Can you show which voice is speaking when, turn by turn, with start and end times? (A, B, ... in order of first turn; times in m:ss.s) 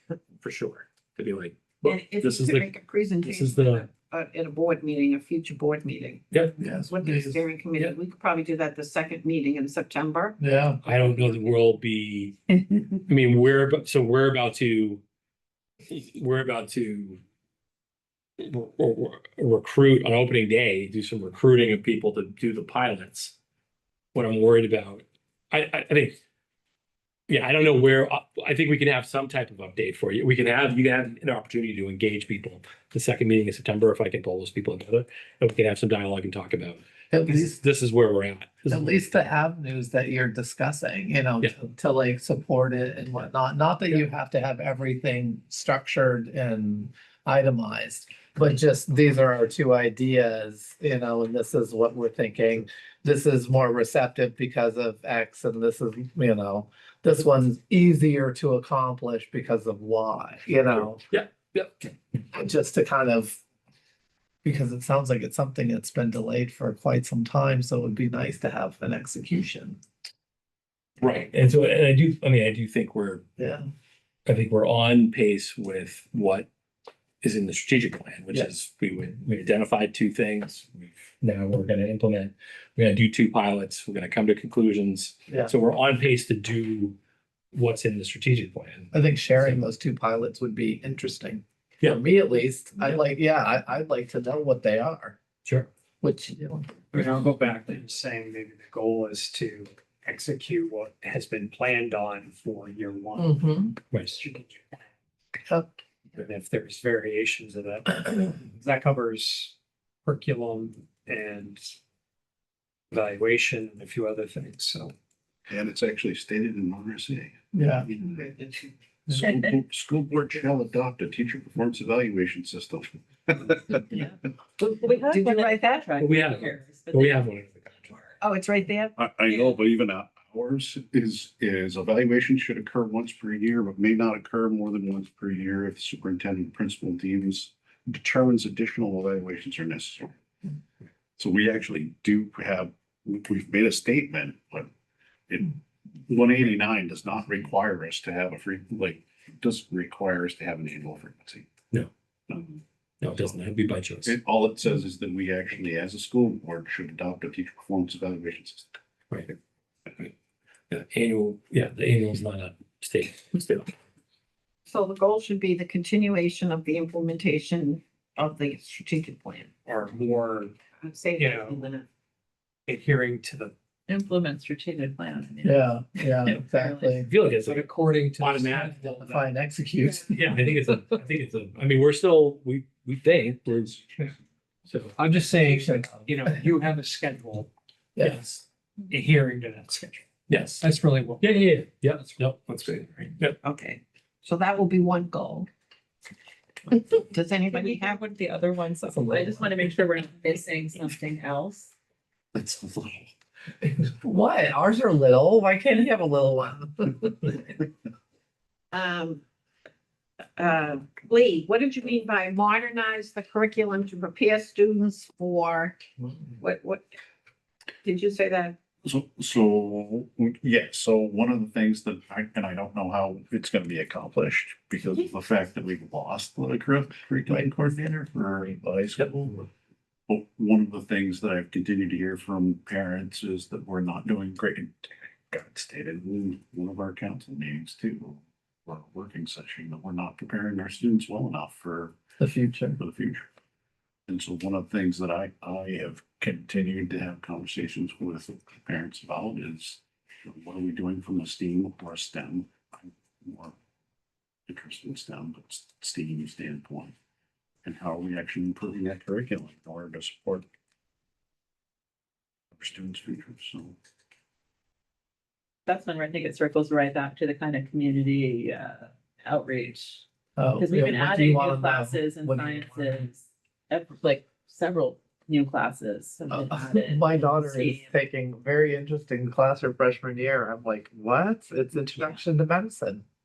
0:00.4-0:02.7 A
0:01.8-0:06.2 B
0:03.2-0:03.9 A
0:06.6-0:07.4 C
0:06.8-0:10.4 B
0:10.4-0:10.8 C
0:10.8-0:15.0 A
0:15.9-0:17.2 A
0:18.4-0:23.3 A
0:24.1-0:26.2 A
0:27.3-0:39.0 A
0:37.1-0:37.6 C
0:38.7-1:01.0 C
1:00.7-1:01.9 A
1:02.3-1:03.4 C
1:04.4-1:09.8 C
1:11.0-1:13.2 A
1:13.4-1:13.6 C
1:14.2-1:16.5 A
1:17.2-1:27.0 A
1:27.5-1:29.6 A
1:28.9-1:35.2 C
1:36.0-1:36.8 C
1:36.9-1:44.8 D
1:43.2-1:43.8 C
1:43.9-1:44.2 A
1:46.1-1:49.5 D
1:50.0-1:51.7 D
1:52.9-1:54.9 D
1:55.5-1:58.2 E
1:57.5-1:57.9 C
1:58.1-1:58.7 B
1:59.1-2:03.8 E
2:03.9-2:07.3 F
2:05.0-2:05.8 B
2:06.0-2:08.0 A
2:08.2-2:09.0 B
2:09.0-2:20.1 E
2:21.2-2:24.7 E
2:25.3-2:31.5 E
2:32.3-2:33.4 E
2:33.0-2:34.2 A
2:34.0-2:38.7 E
2:40.7-2:43.7 A
2:44.7-2:49.5 B
2:49.6-2:50.5 D
2:50.8-2:51.8 B
2:51.2-2:51.6 D
2:52.7-2:53.5 D
2:53.9-2:57.1 F
2:55.4-2:57.1 C
2:57.0-2:59.2 A
2:57.4-2:58.7 D
2:58.7-3:00.1 C
3:00.1-3:04.0 A
3:04.7-3:05.0 A
3:05.0-3:07.5 D
3:05.5-3:05.8 C
3:08.0-3:08.2 C
3:08.0-3:08.4 A
3:08.9-3:10.0 D
3:10.3-3:10.6 A
3:10.6-3:11.4 D
3:11.2-3:12.6 A
3:12.4-3:13.1 D
3:13.4-3:15.5 B
3:16.7-3:18.0 B
3:17.5-3:21.7 F
3:18.8-3:19.5 C
3:22.3-3:23.1 A
3:23.8-3:27.6 C
3:28.7-3:29.2 B
3:30.4-3:35.8 B
3:36.4-3:36.9 B
3:37.8-3:38.6 B
3:38.8-3:49.5 E
3:50.1-4:02.0 E
4:02.2-4:02.8 C
4:02.8-4:03.3 E
4:04.1-4:13.5 E
4:14.5-4:16.9 E
4:17.6-4:20.4 E
4:22.6-4:23.8 E
4:25.6-4:30.0 F
4:30.4-4:33.0 C
4:30.6-4:37.9 F
4:36.3-4:43.0 C